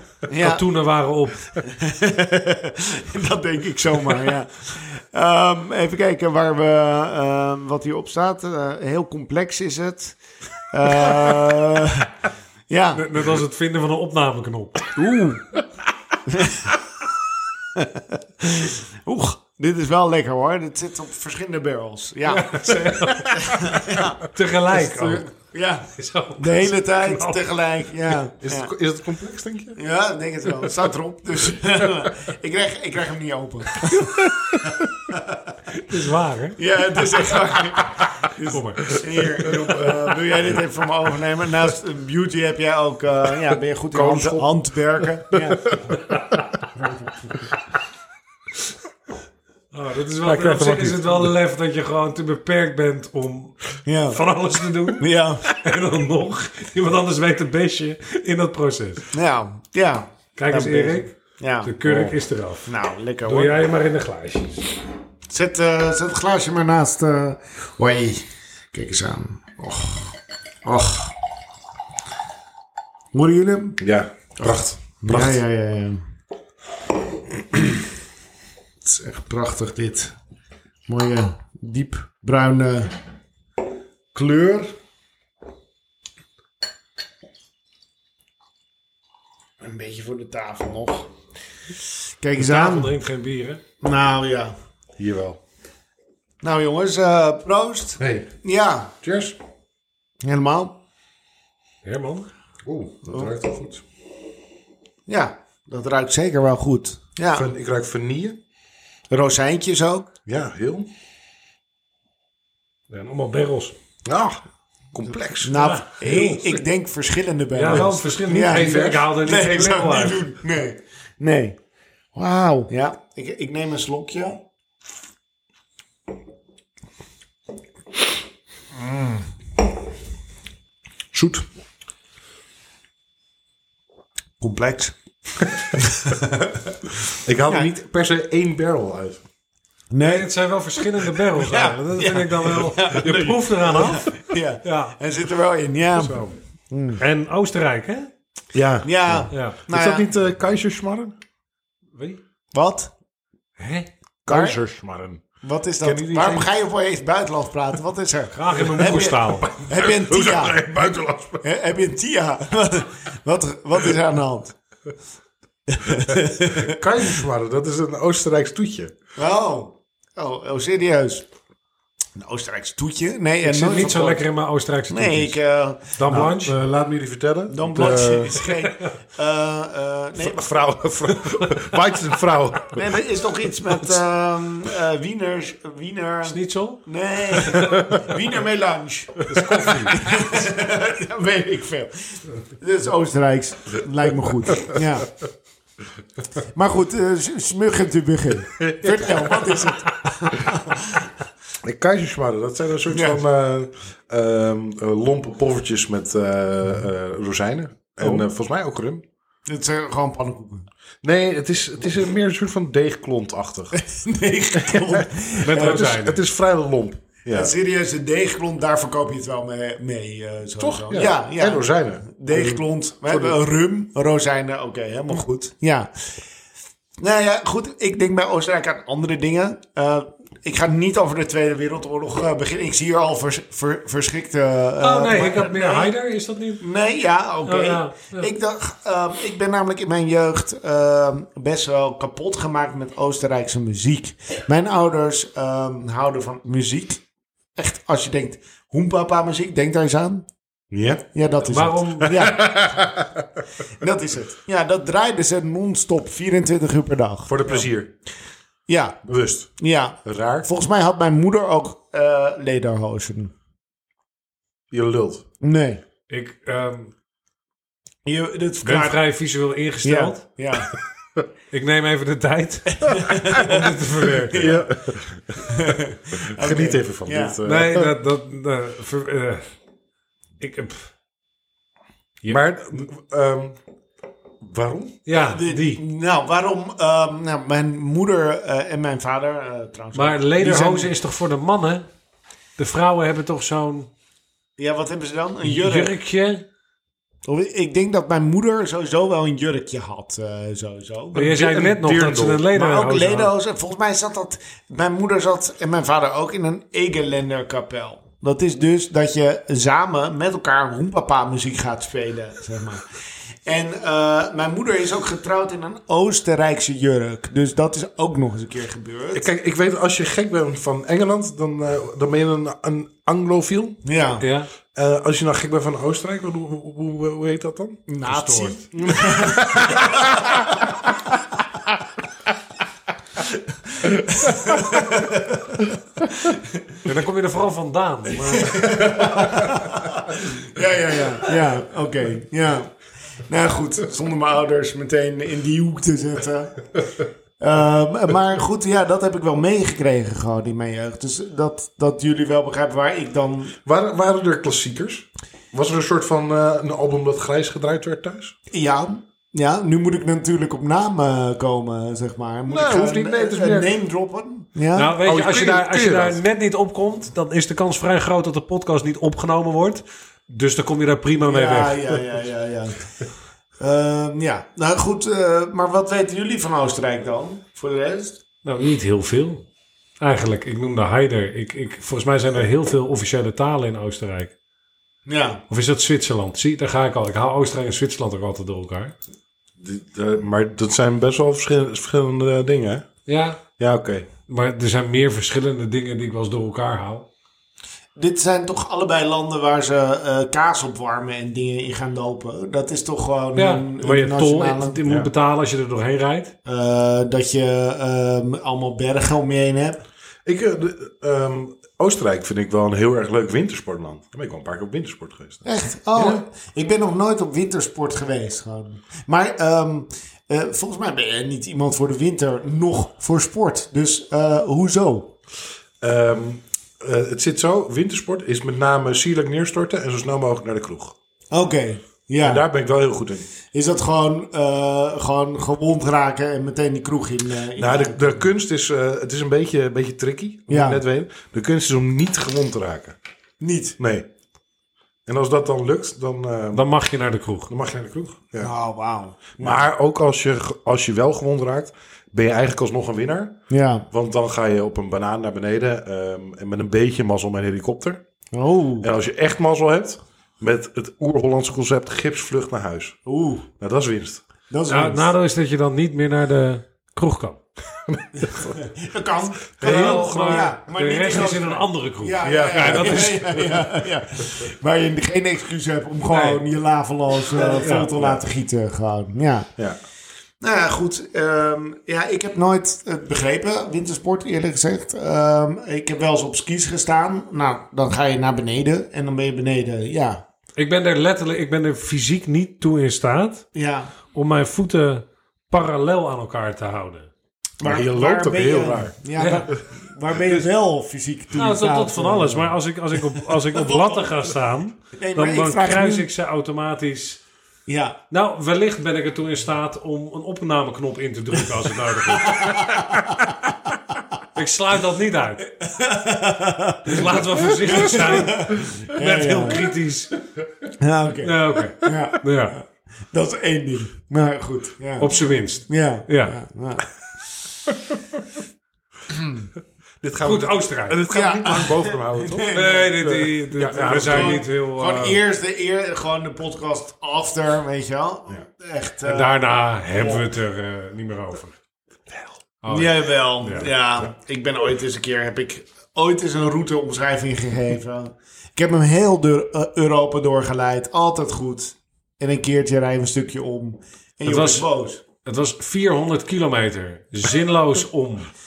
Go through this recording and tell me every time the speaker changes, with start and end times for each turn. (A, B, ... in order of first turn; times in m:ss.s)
0:00.3-0:00.6 A
0:00.3-0:01.5 B
0:01.6-0:10.2 A
0:10.7-0:12.1 A
0:12.7-0:13.1 A
0:12.9-0:14.9 B
0:15.0-0:15.5 A
0:16.2-0:16.7 A
0:17.7-0:22.7 A
0:22.2-0:25.3 B
0:23.2-0:24.2 A
0:24.7-0:28.7 A
0:26.0-0:27.4 B
0:28.4-0:29.8 C
0:29.8-0:35.6 A
0:34.2-0:34.9 C
0:35.7-0:36.6 B
0:36.6-0:46.0 A
0:38.4-0:39.0 B
0:39.4-0:39.8 C
0:43.9-0:44.5 C
0:45.3-0:46.0 C
0:49.7-0:59.1 B
0:50.2-0:51.3 C
0:53.8-0:54.2 A
0:55.0-0:55.4 A
0:59.1-1:01.7 A
1:00.4-1:02.7 B
1:01.8-1:02.1 C
1:02.7-1:03.6 A
1:03.2-1:04.7 B
1:05.3-1:11.1 A
1:13.1-1:13.8 A
1:13.8-1:15.4 C
1:15.0-1:16.0 A
1:18.8-1:20.1 A
1:20.9-1:22.9 A
1:24.1-1:24.7 A
1:29.6-1:31.1 A
1:32.2-1:32.9 A
1:32.4-1:33.6 B
1:33.8-1:34.5 A
1:35.0-1:35.4 C
1:36.4-1:38.9 A
1:38.0-1:38.3 C
1:39.0-1:39.4 C
1:40.2-1:40.8 A
1:41.8-1:42.3 B
1:42.6-1:43.8 C
1:45.0-1:47.5 A
1:47.3-1:48.4 C
1:49.1-1:50.1 A
1:50.2-1:50.9 C
1:52.9-1:53.7 B
1:54.0-1:56.6 C
1:55.4-2:01.6 A
1:55.5-1:56.4 B
1:57.5-2:00.3 B
1:57.7-1:59.0 C
2:02.1-2:04.4 A
2:11.1-2:11.4 C
2:14.4-2:15.0 A
2:15.6-2:16.7 A
2:17.1-2:19.2 C
2:19.9-2:20.3 A
2:20.0-2:24.9 B
2:21.0-2:27.0 A
2:26.0-2:26.3 B
2:27.0-2:28.1 B
2:28.5-2:31.1 C
2:28.8-2:30.1 A
2:29.3-2:29.6 B
2:31.9-2:32.2 B
2:32.5-2:32.9 A
2:33.6-2:33.9 B
2:34.2-2:35.2 C
2:34.3-2:34.6 A
2:35.4-2:40.6 A
2:35.8-2:36.5 C
2:38.3-2:39.4 B
2:38.9-2:41.4 C
2:41.4-2:44.5 A
2:45.7-2:46.8 A
2:46.4-2:48.9 C
2:49.2-2:51.3 A
2:52.1-2:54.2 A
2:53.4-2:55.4 B
2:54.9-2:56.0 A
2:55.9-2:56.6 B
2:56.0-2:58.4 C
2:57.5-3:00.5 A
2:57.9-2:58.9 B
3:00.2-3:02.8 C
3:02.7-3:15.1 A
3:06.2-3:07.9 B
3:07.7-3:08.0 C
3:09.3-3:09.9 C
3:09.4-3:09.9 B
3:16.5-3:21.1 A
3:18.6-3:19.6 C
3:21.6-3:29.0 C
3:22.9-3:23.2 A
3:28.0-3:28.2 B
3:29.4-3:30.7 A
3:31.0-3:33.8 C
3:33.7-3:36.0 A
3:34.5-3:37.5 C
3:35.4-3:36.2 B
3:37.3-3:46.1 A
3:40.6-3:43.4 C
3:47.0-3:55.9 A
3:54.8-3:56.6 B
3:56.6-4:07.0 A
3:57.4-3:58.3 B
4:07.6-4:10.3 A
4:10.7-4:11.0 C
4:11.1-4:12.6 A
4:11.4-4:12.3 B
4:12.0-4:13.3 C
4:13.8-4:17.3 A
4:17.3-4:17.9 C
4:18.7-4:19.0 A
4:19.0-4:19.5 C
4:19.6-4:23.3 A
4:20.0-4:20.5 C
4:24.7-4:25.2 C
4:25.4-4:25.8 A
4:26.1-4:26.9 B
4:28.0-4:29.0 A
4:28.6-4:30.2 B
4:29.8-4:30.7 A
4:31.5-4:34.6 B
4:32.7-4:34.6 A
4:34.3-4:37.9 C
4:35.4-4:37.4 A
4:37.4-4:39.4 B
4:40.4-4:40.9 B
4:42.3-4:43.6 C
4:44.4-4:45.0 C
4:45.0-4:45.8 B
4:45.1-4:50.9 A
4:49.9-4:51.8 B
4:52.6-4:53.9 B
4:54.6-4:56.0 A
4:55.4-4:56.4 B
4:57.2-5:01.2 A
5:01.1-5:02.4 C
5:01.1-5:03.3 B
5:02.5-5:12.8 A
5:13.4-5:19.2 A
5:19.1-5:23.8 C
5:23.8-5:24.2 A
5:24.2-5:24.5 B
5:24.7-5:27.8 C
5:27.9-5:30.6 A
5:28.0-5:28.7 B
5:28.7-5:30.6 C
5:33.2-5:36.8 A
5:36.8-5:38.9 B
5:38.2-5:53.6 A
5:53.6-5:58.3 C
5:58.5-6:05.0 A
6:02.5-6:03.7 C
6:04.7-6:11.8 B
6:05.0-6:06.2 C
6:11.3-6:12.9 A
6:13.6-6:18.2 A
6:18.4-6:19.4 B
6:20.0-6:24.3 B
6:25.0-6:25.4 A
6:25.5-6:28.9 B
6:29.6-6:32.9 C
6:33.1-6:33.4 B
6:33.6-6:34.1 C
6:34.3-6:37.0 B
6:38.0-6:44.8 A
6:43.4-6:46.3 B
6:46.4-6:49.8 A
6:50.2-6:56.2 C
6:55.4-7:05.1 A
7:05.8-7:10.9 C
7:11.3-7:12.4 A
7:12.2-7:13.3 C
7:13.4-7:18.2 A
7:17.6-7:23.0 C
7:20.5-7:20.8 A
7:23.4-7:23.8 A
7:23.8-7:24.1 C
7:25.0-7:26.6 C
7:26.5-7:27.5 B
7:27.5-7:28.5 C
7:28.4-7:29.6 A
7:29.4-7:33.4 C
7:33.5-7:33.9 A
7:33.9-7:38.0 C
7:38.3-7:38.9 A
7:38.8-7:43.0 C
7:43.0-7:43.5 A
7:43.6-7:44.2 C
7:44.5-7:45.1 A
7:44.7-7:47.4 B
7:47.9-7:48.6 C
7:48.2-7:59.5 A
7:49.6-7:50.5 C
7:49.6-7:53.2 B
7:52.2-7:53.6 C
7:56.1-7:56.4 B
7:57.4-7:57.9 B
8:00.4-8:10.2 A
8:10.6-8:13.5 B
8:13.5-8:13.9 A
8:14.1-8:17.1 B
8:17.6-8:22.5 A
8:17.6-8:19.0 C
8:19.2-8:19.5 B
8:21.3-8:27.2 B
8:23.5-8:24.1 A
8:25.0-8:26.1 A
8:27.7-8:28.0 A
8:28.1-8:33.1 B
8:32.0-8:33.3 A
8:34.3-8:35.5 B
8:35.6-8:39.7 A
8:36.9-8:40.1 B
8:40.8-8:46.9 A
8:41.2-8:42.6 B
8:45.0-8:46.4 B
8:49.1-8:49.5 A
8:50.0-8:54.4 C
8:50.2-8:51.0 B
8:51.1-8:53.0 A
8:52.5-8:55.2 B
8:53.8-8:59.3 A
8:59.0-9:01.5 B
8:59.9-9:00.3 A
9:02.6-9:03.7 B
9:02.7-9:15.0 A
9:14.2-9:14.7 B
9:15.2-9:18.3 B